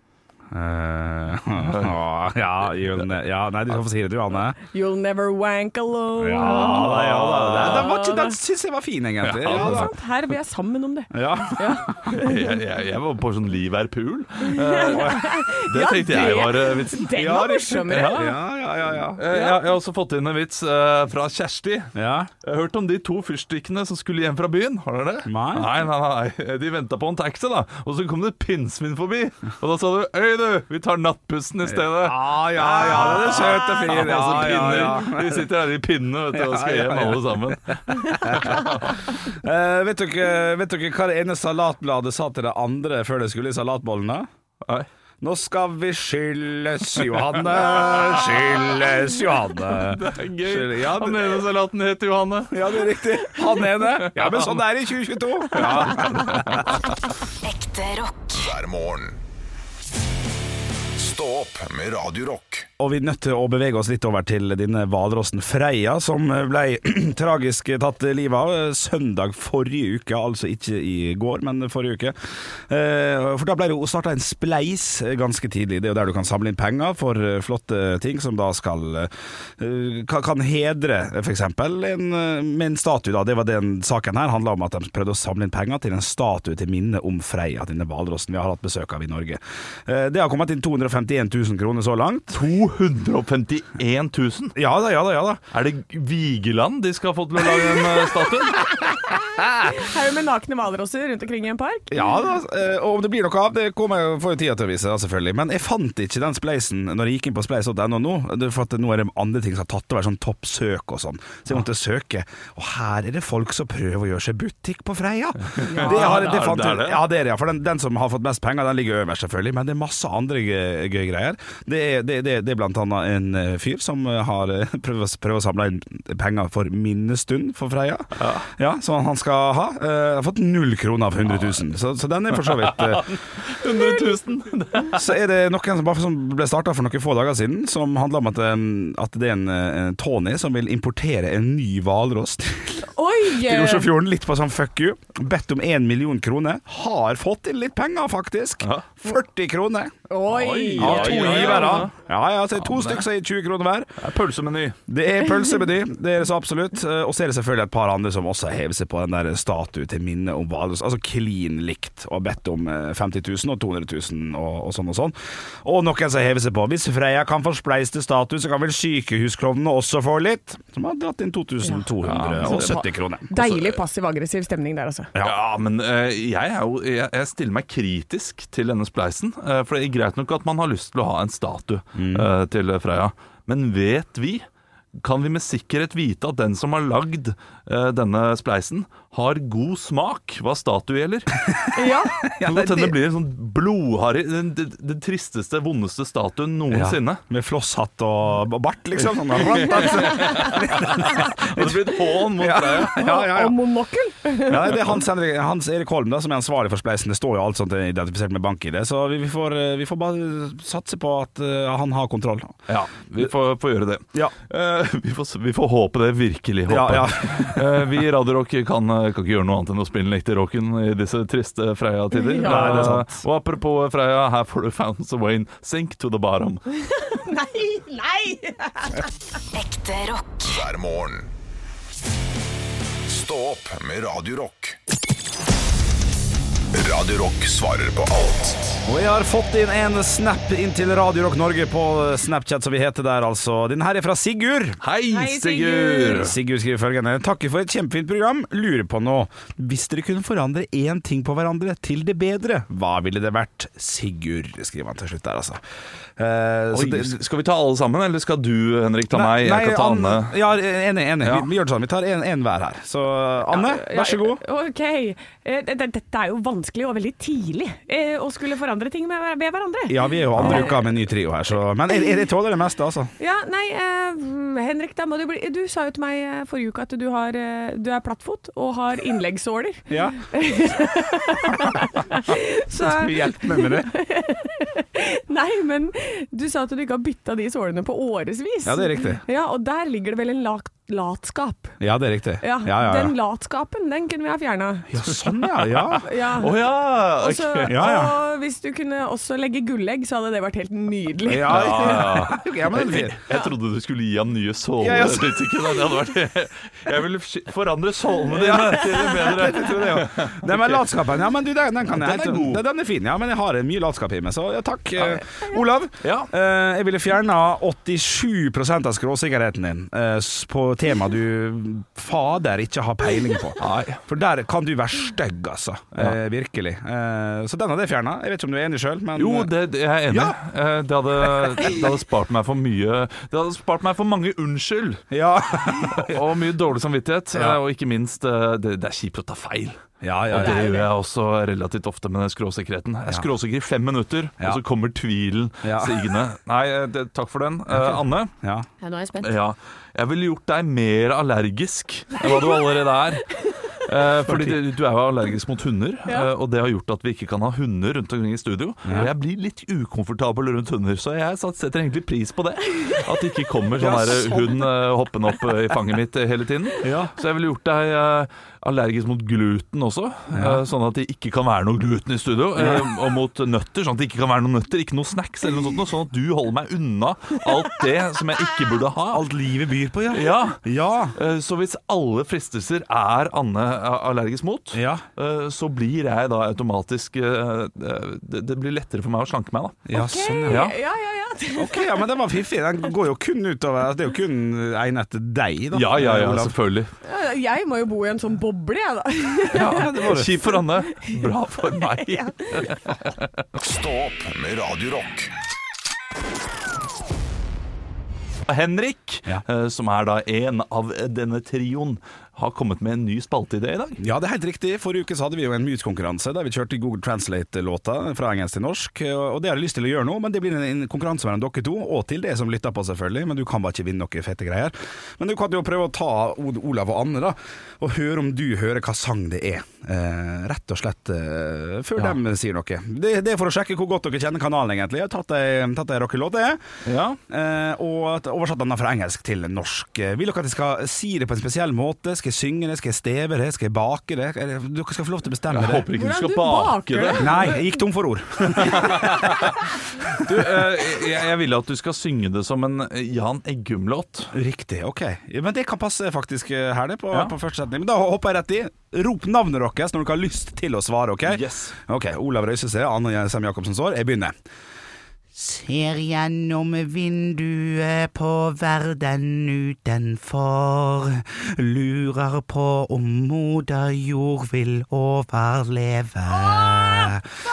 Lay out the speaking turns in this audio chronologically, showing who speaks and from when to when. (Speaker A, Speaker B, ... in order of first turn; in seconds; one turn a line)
Speaker A: 0.5-4.6
Speaker B: 1.6-1.9
Speaker C: 4.7-7.0
Speaker A: 6.2-9.9
Speaker B: 6.4-7.9
Speaker C: 7.6-8.3
Speaker B: 9.2-9.9
Speaker C: 9.4-12.5
Speaker A: 11.1-12.1
Speaker B: 12.1-17.1
Speaker C: 14.4-18.4
Speaker A: 17.1-19.2
Speaker B: 17.9-18.4
Speaker B: 19.2-39.1
Speaker C: 19.3-19.6
Speaker A: 21.9-22.3
Speaker A: 25.2-25.7
Speaker A: 31.6-35.5
Speaker A: 36.3-44.3
Speaker A: 45.2-51.4
Speaker B: 47.6-48.8
Speaker B: 49.6-52.9
Speaker A: 52.5-56.9
Speaker B: 54.0-54.5
Speaker B: 55.5-56.6
Speaker D: 57.4-59.2
Speaker D: 61.0-62.7
Speaker A: 62.8-92.4
Speaker B: 92.3-94.5
Speaker A: 94.5-95.4
Speaker B: 95.5-98.7
Speaker C: 99.5-102.1
Speaker A: 101.9-133.1
Speaker B: 115.5-117.0
Speaker C: 115.7-116.2
Speaker B: 128.2-128.4
Speaker B: 132.4-135.1
Speaker A: 134.9-149.9
Speaker C: 142.8-143.9
Speaker B: 148.6-148.9
Speaker C: 150.1-151.9
Speaker B: 150.3-151.9
Speaker A: 150.8-153.9
Speaker B: 152.6-153.0
Speaker B: 154.0-154.8
Speaker A: 154.9-173.4
Speaker B: 172.0-172.8
Speaker C: 172.4-175.1
Speaker B: 175.2-184.4
Speaker A: 181.9-182.3
Speaker B: 184.9-191.3
Speaker C: 191.7-192.2
Speaker A: 192.2-192.9
Speaker B: 192.4-197.2
Speaker A: 196.7-203.6
Speaker B: 199.3-203.1
Speaker C: 202.9-204.8
Speaker A: 204.4-212.6
Speaker B: 212.7-226.7
Speaker A: 216.7-217.8
Speaker C: 222.1-222.9
Speaker A: 222.4-223.2
Speaker C: 226.9-229.1
Speaker D: 229.5-231.3
Speaker D: 233.1-234.8
Speaker D: 236.7-238.8
Speaker A: 238.8-244.8
Speaker B: 244.8-246.3
Speaker C: 245.1-246.3
Speaker A: 246.1-255.6
Speaker A: 256.2-257.2
Speaker B: 256.7-260.4
Speaker A: 259.1-264.4
Speaker C: 263.5-270.9
Speaker A: 269.9-273.1
Speaker B: 270.4-270.6
Speaker C: 273.2-291.8
Speaker A: 279.9-280.2
Speaker A: 282.8-283.9
Speaker A: 288.6-289.2
Speaker A: 291.8-293.1
Speaker C: 292.4-295.1
Speaker A: 294.9-296.1
Speaker C: 295.9-296.6
Speaker B: 296.4-297.8
Speaker C: 297.2-302.2
Speaker A: 297.7-298.1
Speaker A: 301.2-303.2
Speaker B: 301.4-310.9
Speaker A: 304.8-305.7
Speaker A: 308.3-329.5
Speaker B: 311.9-312.6
Speaker B: 316.0-316.3
Speaker B: 323.6-324.0
Speaker B: 329.1-335.0
Speaker A: 330.1-330.4
Speaker A: 335.1-336.2
Speaker B: 335.9-339.8
Speaker A: 337.3-337.6
Speaker A: 340.0-340.7
Speaker B: 340.3-348.3
Speaker C: 340.3-340.9
Speaker A: 345.6-346.0
Speaker A: 347.7-348.7
Speaker C: 348.8-349.3
Speaker B: 349.2-379.2
Speaker C: 352.2-352.6
Speaker A: 354.2-354.6
Speaker A: 358.9-359.1
Speaker A: 363.8-364.6
Speaker A: 366.8-367.1
Speaker A: 370.3-370.6
Speaker A: 372.6-372.9
Speaker A: 379.1-381.1
Speaker B: 380.1-380.6
Speaker B: 381.1-389.9
Speaker A: 384.7-385.0
Speaker A: 389.9-390.7
Speaker C: 389.9-392.1
Speaker B: 390.5-390.7
Speaker A: 391.6-396.5
Speaker B: 395.7-396.9
Speaker C: 397.0-402.8
Speaker B: 399.5-403.3
Speaker A: 399.6-400.4
Speaker D: 403.6-405.3
Speaker B: 408.5-414.0
Speaker A: 414.0-436.6
Speaker B: 436.8-437.2
Speaker A: 437.3-445.9
Speaker B: 445.5-447.5
Speaker C: 445.9-447.8
Speaker A: 447.2-449.5
Speaker B: 448.5-449.6
Speaker B: 450.1-454.3
Speaker A: 454.3-464.3
Speaker B: 461.2-461.7
Speaker A: 465.4-465.8
Speaker A: 466.4-466.8
Speaker E: 468.0-470.7
Speaker A: 471.3-472.1
Speaker A: 472.8-477.2